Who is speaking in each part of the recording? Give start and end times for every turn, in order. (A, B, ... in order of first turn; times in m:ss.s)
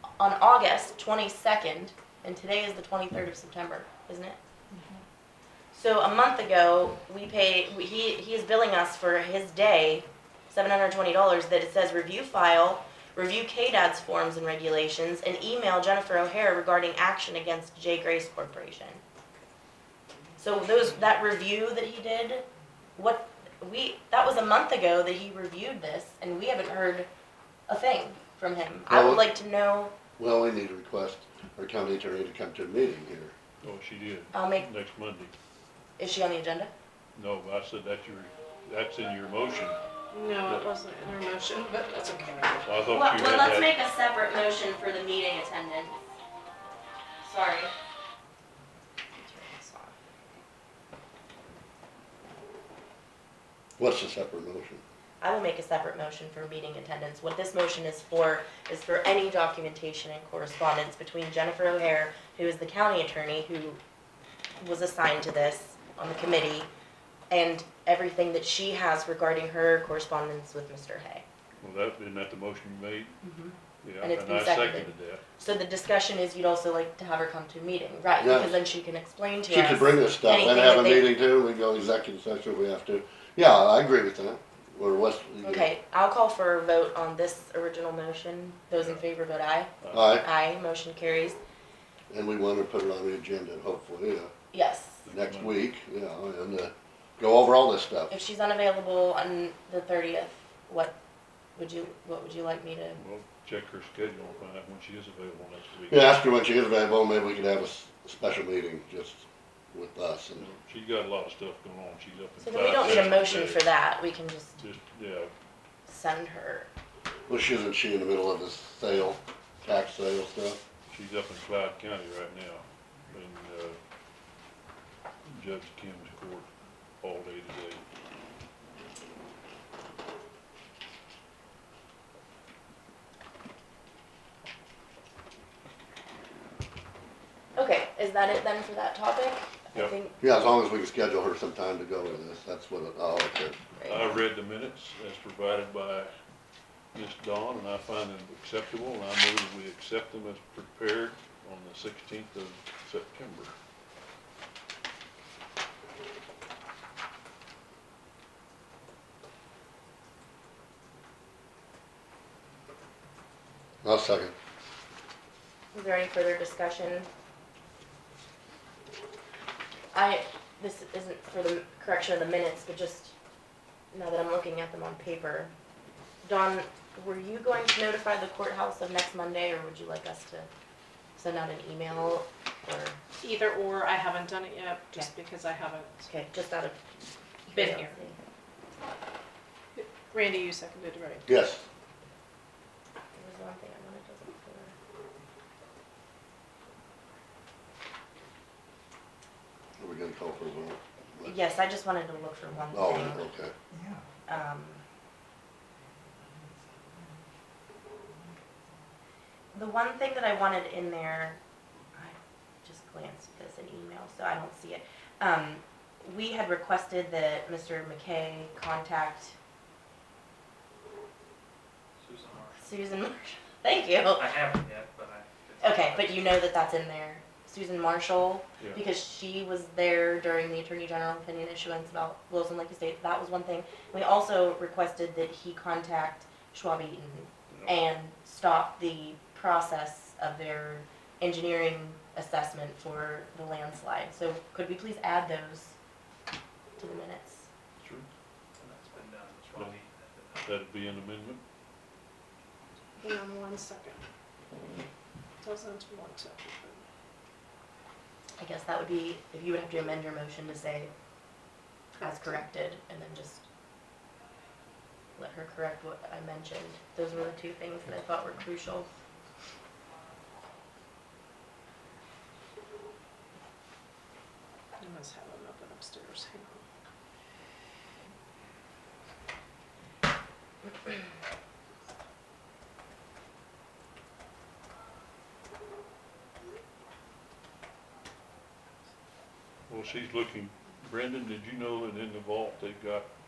0:00.2-0:04.4 A
0:04.7-0:05.0 B
0:05.7-0:19.0 A
0:20.4-0:22.4 A
0:23.0-0:27.1 A
0:27.7-0:29.9 A
0:28.8-0:29.2 C
0:30.2-0:33.3 C
0:33.6-0:35.3 D
0:34.3-0:34.7 A
0:36.0-0:36.7 A
0:37.1-0:39.8 D
0:40.1-0:42.8 B
0:42.6-0:43.7 D
0:42.9-0:46.0 A
0:47.2-0:47.7 A
0:49.2-0:49.9 A
0:53.8-0:54.8 C
0:55.2-1:03.8 A
1:04.6-1:06.7 A
1:07.3-1:11.2 A
1:11.6-1:13.2 D
1:13.2-1:21.1 A
1:13.8-1:15.2 D
1:18.2-1:18.6 C
1:19.5-1:25.7 C
1:25.4-1:31.4 A
1:29.8-1:30.1 D
1:29.9-1:30.2 C
1:32.1-1:34.3 C
1:34.5-1:35.0 A
1:35.0-1:35.6 D
1:35.1-1:38.1 C
1:38.1-1:41.0 A
1:41.6-1:43.0 A
1:43.0-1:46.1 D
1:45.9-1:50.5 C
1:50.4-1:53.6 D
1:52.4-1:54.6 A
1:54.6-1:55.3 D
1:55.9-1:56.7 A
1:57.3-2:00.6 C
2:00.9-2:03.8 D
2:05.2-2:06.5 D
2:07.0-2:07.8 D
2:17.6-2:20.1 A
2:20.2-2:23.6 C
2:23.8-2:24.1 A
2:23.9-2:26.1 D
2:26.9-2:33.5 D
2:43.8-2:44.3 C
2:45.7-2:47.1 A
2:49.9-2:53.1 A
2:53.9-2:55.5 A
2:56.2-3:00.5 A
3:01.2-3:03.0 A
3:03.2-3:06.0 B
3:06.1-3:06.8 A
3:07.5-3:08.0 B
3:07.5-3:08.2 A
3:09.8-3:11.3 B
3:11.3-3:11.6 C
3:13.1-3:14.7 A
3:19.8-3:21.3 C
3:21.2-3:23.2 A
3:22.7-3:23.5 C
3:24.3-3:24.8 A
3:29.5-3:31.4 A
3:31.9-3:39.3 A
3:42.0-3:42.6 E
3:42.6-3:44.3 A
3:44.1-3:46.4 E
3:45.6-4:05.7 A
4:06.8-4:07.5 A
4:07.8-4:08.1 D
4:08.6-4:10.6 E
4:10.4-4:11.4 D
4:13.0-4:14.0 B
4:15.4-4:16.8 B
4:18.4-4:20.9 A
4:22.0-4:22.4 B
4:22.0-4:23.4 A
4:25.2-4:28.9 A
4:34.8-4:36.6 B
4:49.7-4:53.1 D